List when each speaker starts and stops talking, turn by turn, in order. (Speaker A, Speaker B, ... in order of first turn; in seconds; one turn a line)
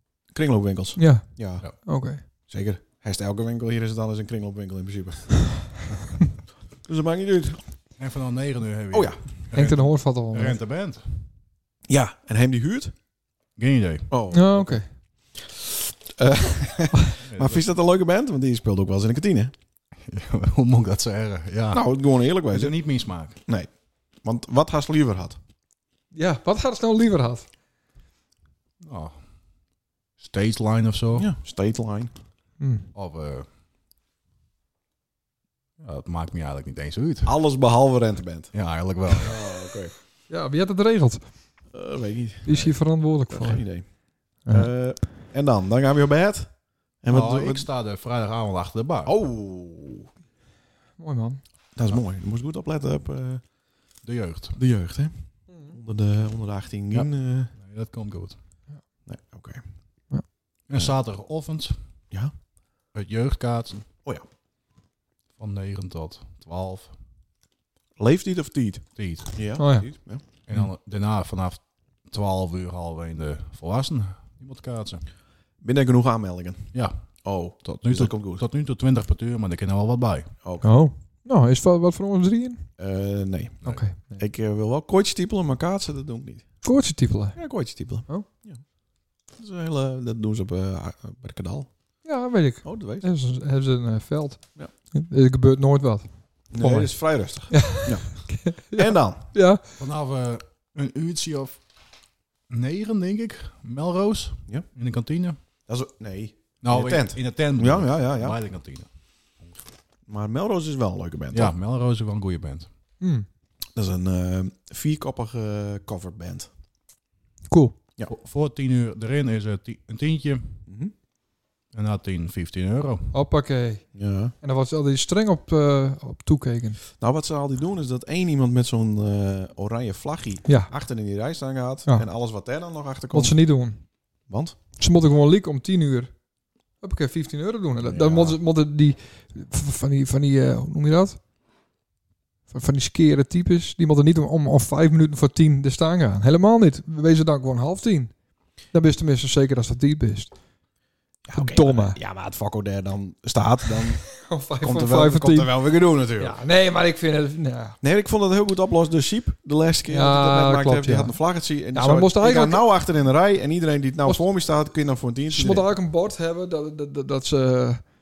Speaker A: 0.3-1.7
Speaker B: 0.9-2.2
Speaker A: 2.3-5.7
Speaker A: 6.9-7.6
Speaker C: 8.0-11.2
Speaker A: 8.9-9.2
Speaker B: 9.5-10.6
Speaker A: 11.9-12.9
Speaker C: 13.6-14.1
Speaker A: 14.1-19.5
Speaker B: 14.3-14.9
Speaker C: 17.2-17.6
Speaker C: 20.0-21.9
Speaker A: 21.7-22.8
Speaker C: 22.5-23.4
Speaker A: 24.2-25.4
Speaker B: 26.1-27.4
Speaker C: 28.8-29.3
Speaker C: 30.2-31.3
Speaker A: 31.1-32.1
Speaker B: 32.6-32.9
Speaker C: 32.9-33.5
Speaker C: 35.8-37.3
Speaker A: 37.2-38.5
Speaker C: 38.5-39.4
Speaker A: 39.1-39.9
Speaker B: 40.3-41.2
Speaker A: 41.7-42.7
Speaker B: 42.4-43.6
Speaker A: 43.3-43.9
Speaker A: 44.5-47.7
Speaker C: 47.1-49.1
Speaker A: 49.0-50.1
Speaker B: 51.0-51.4
Speaker A: 51.8-53.4
Speaker C: 54.0-54.6
Speaker A: 54.5-57.5
Speaker B: 55.5-55.8
Speaker C: 56.9-58.4
Speaker A: 59.0-59.6
Speaker C: 60.7-61.8
Speaker C: 62.9-63.9
Speaker C: 65.4-66.9
Speaker A: 68.0-70.2
Speaker C: 69.0-69.3
Speaker B: 69.6-69.9
Speaker C: 70.5-75.0
Speaker A: 75.6-78.4
Speaker C: 76.7-77.0
Speaker C: 77.6-80.3
Speaker A: 80.4-80.7
Speaker B: 80.6-82.7
Speaker A: 82.8-83.6
Speaker B: 83.6-84.2
Speaker A: 84.2-86.5
Speaker B: 86.6-87.4
Speaker A: 87.4-88.6
Speaker A: 89.3-91.7
Speaker B: 92.0-96.9
Speaker A: 92.6-93.1
Speaker A: 96.5-99.2
Speaker B: 97.5-99.6
Speaker C: 99.8-101.6
Speaker C: 102.5-105.4
Speaker A: 105.7-108.4
Speaker C: 106.6-109.6
Speaker A: 110.1-111.5
Speaker C: 111.3-112.7
Speaker B: 113.0-113.2
Speaker A: 113.7-116.5
Speaker B: 117.5-117.8
Speaker C: 118.0-120.6
Speaker A: 120.7-120.9
Speaker C: 121.7-123.1
Speaker B: 123.1-123.8
Speaker A: 123.9-124.3
Speaker B: 124.4-126.8
Speaker A: 127.0-133.4
Speaker B: 130.4-130.7
Speaker B: 133.1-133.8
Speaker A: 134.3-134.6
Speaker B: 134.8-136.1
Speaker B: 136.8-141.2
Speaker A: 137.9-138.4
Speaker B: 142.5-148.1
Speaker B: 148.7-150.3
Speaker A: 151.2-154.1
Speaker B: 151.3-152.0
Speaker B: 154.2-155.5
Speaker A: 154.6-156.4
Speaker B: 156.2-157.8
Speaker A: 157.8-165.7
Speaker B: 159.9-161.1
Speaker B: 161.7-162.6
Speaker B: 165.3-167.9